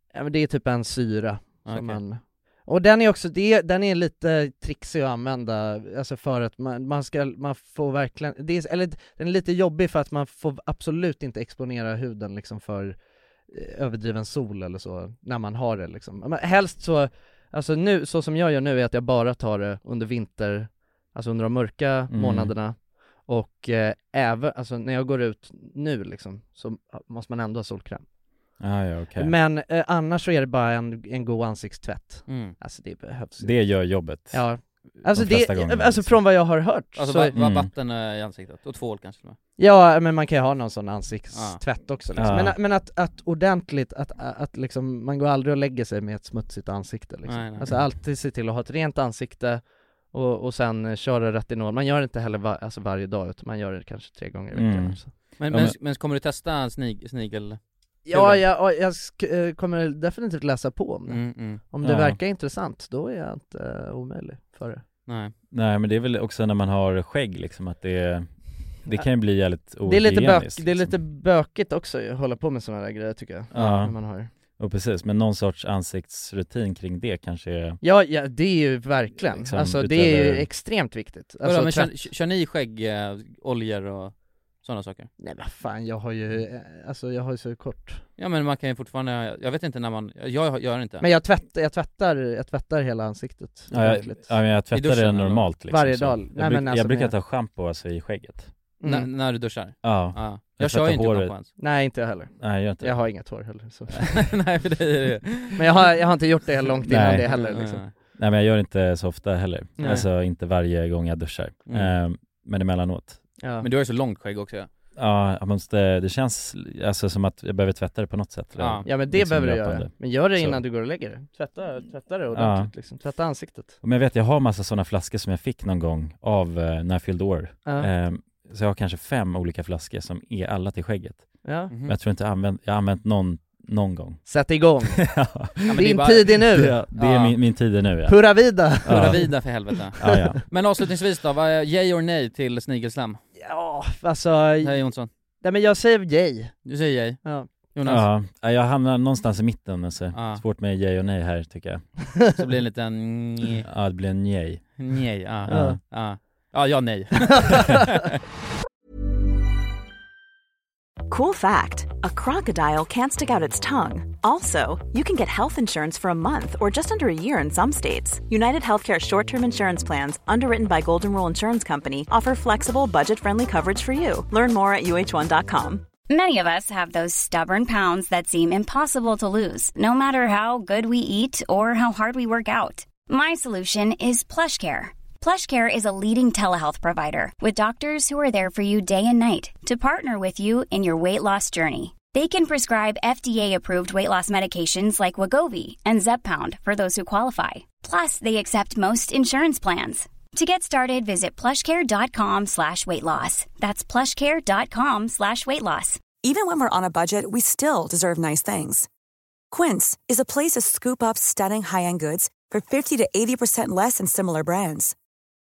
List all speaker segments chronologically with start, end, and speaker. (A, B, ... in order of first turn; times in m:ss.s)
0:00.1-0:13.0 A
0:01.7-0:02.0 B
0:13.5-0:28.0 A
0:22.1-0:22.5 C
0:28.6-0:29.3 C
0:29.2-0:37.4 A
0:32.3-0:32.6 B
0:33.4-0:34.4 C
0:35.2-0:36.1 C
0:37.0-0:39.4 B
0:39.6-0:55.1 A
0:41.3-0:41.6 B
0:42.2-0:42.5 C
0:47.2-0:47.7 B
0:54.6-0:54.9 C
0:55.4-0:57.6 B
0:58.1-1:04.8 A
0:58.1-0:58.4 B
1:01.1-1:01.6 B
1:01.8-1:02.2 C
1:05.1-1:05.3 B
1:05.6-1:08.2 C
1:08.9-1:10.8 C
1:09.8-1:14.3 A
1:13.6-1:13.9 C
1:14.6-1:17.8 C
1:17.8-1:21.9 A
1:19.4-1:20.4 C
1:21.4-1:25.1 B
1:25.2-1:28.0 A
1:28.2-1:31.0 B
1:31.0-1:34.3 A
1:33.7-1:38.4 C
1:34.7-1:35.5 B
1:35.7-1:37.2 A
1:38.8-1:39.1 A
1:38.8-1:41.5 B
1:39.8-1:41.2 C
1:41.6-1:44.2 A
1:42.4-1:42.9 C
1:43.9-1:45.6 B
1:45.6-1:47.8 A
1:47.3-1:47.9 B
1:48.2-1:53.0 C
1:49.8-1:50.1 A
1:51.7-1:52.0 B
1:53.4-1:53.7 A
1:53.6-1:54.7 B
1:55.0-2:00.6 C
1:58.6-1:58.9 B
1:58.8-2:03.8 A
2:02.4-2:02.7 C
2:03.8-2:11.2 C
2:07.6-2:07.9 A
2:11.4-2:11.7 A
2:11.7-2:12.0 B
2:11.9-2:14.2 C
2:14.3-2:16.8 A
2:15.1-2:15.4 C
2:15.6-2:17.4 B
2:16.6-2:18.1 C
2:18.1-2:19.5 A
2:18.9-2:23.2 B
2:20.0-2:20.3 C
2:23.4-2:24.9 A
2:24.6-2:25.1 B
2:25.4-2:26.6 A
2:26.7-2:27.2 B
2:27.2-2:27.5 A
2:27.7-2:28.1 B
2:27.9-2:31.7 C
2:30.1-2:30.4 B
2:32.3-2:33.7 B
2:33.9-2:34.4 C
2:34.8-2:38.2 B
2:35.5-2:35.8 A
2:37.4-2:37.9 A
2:41.1-2:55.9 D
2:56.1-3:26.0 E
3:26.2-3:28.9 F
3:29.5-3:35.0 F